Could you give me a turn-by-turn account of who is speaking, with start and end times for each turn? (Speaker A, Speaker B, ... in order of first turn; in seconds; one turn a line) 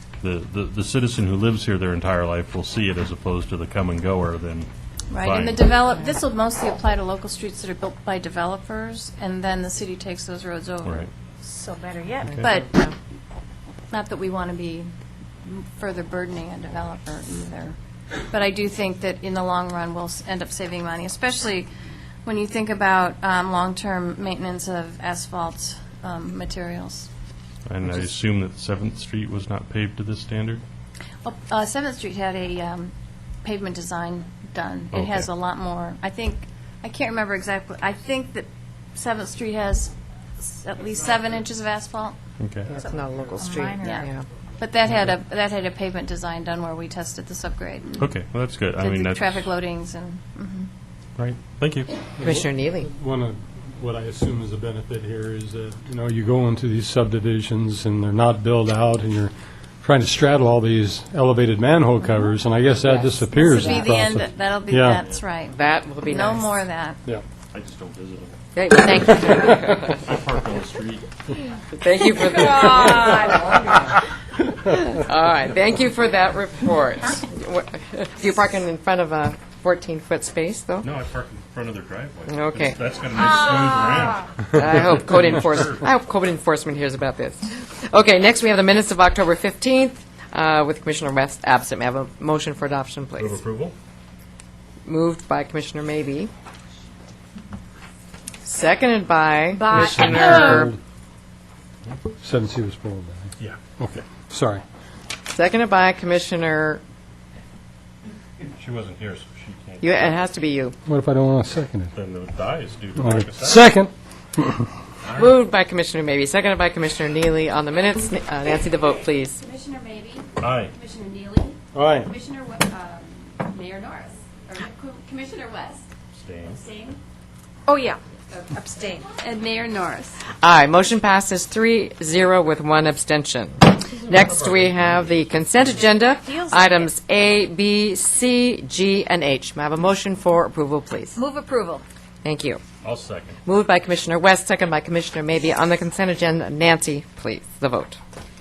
Speaker A: 0.2-5.7
Speaker B: 5.1-11.1
Speaker C: 11.5-12.3
Speaker D: 12.3-12.9
Speaker B: 12.4-12.9
Speaker B: 13.9-21.7
Speaker B: 22.2-27.1
Speaker A: 27.7-30.6
Speaker B: 31.2-32.9
Speaker B: 33.4-42.1
Speaker A: 34.9-35.3
Speaker A: 42.4-42.8
Speaker D: 42.7-44.2
Speaker C: 43.4-44.0
Speaker B: 43.8-48.1
Speaker A: 48.0-49.5
Speaker B: 48.8-50.7
Speaker A: 51.2-51.9
Speaker D: 52.2-52.9
Speaker E: 52.2-65.0
Speaker D: 62.8-63.8
Speaker B: 63.3-67.0
Speaker D: 65.5-66.5
Speaker A: 67.5-71.1
Speaker D: 68.5-70.0
Speaker D: 71.8-74.0
Speaker D: 74.6-80.8
Speaker A: 80.8-85.8
Speaker D: 82.3-82.8
Speaker D: 84.5-93.4
Speaker A: 93.2-93.7
Speaker D: 94.8-96.3
Speaker D: 98.4-100.7
Speaker C: 99.6-100.6
Speaker E: 99.7-100.8
Speaker E: 102.2-104.6
Speaker D: 105.3-106.8
Speaker A: 108.5-110.2
Speaker D: 109.8-110.8
Speaker E: 110.8-111.9
Speaker A: 111.9-113.7
Speaker E: 113.0-114.7
Speaker A: 115.0-115.3
Speaker D: 115.2-119.4
Speaker F: 119.4-125.9
Speaker A: 120.4-120.7
Speaker E: 121.7-122.1
Speaker A: 126.1-126.6
Speaker F: 126.5-127.0
Speaker C: 127.7-127.9
Speaker F: 127.7-130.2
Speaker C: 128.5-129.1
Speaker D: 130.3-141.2
Speaker A: 134.1-135.8
Speaker C: 136.2-136.9
Speaker C: 141.2-141.8
Speaker D: 142.2-142.6
Speaker A: 142.8-143.4
Speaker D: 143.4-148.0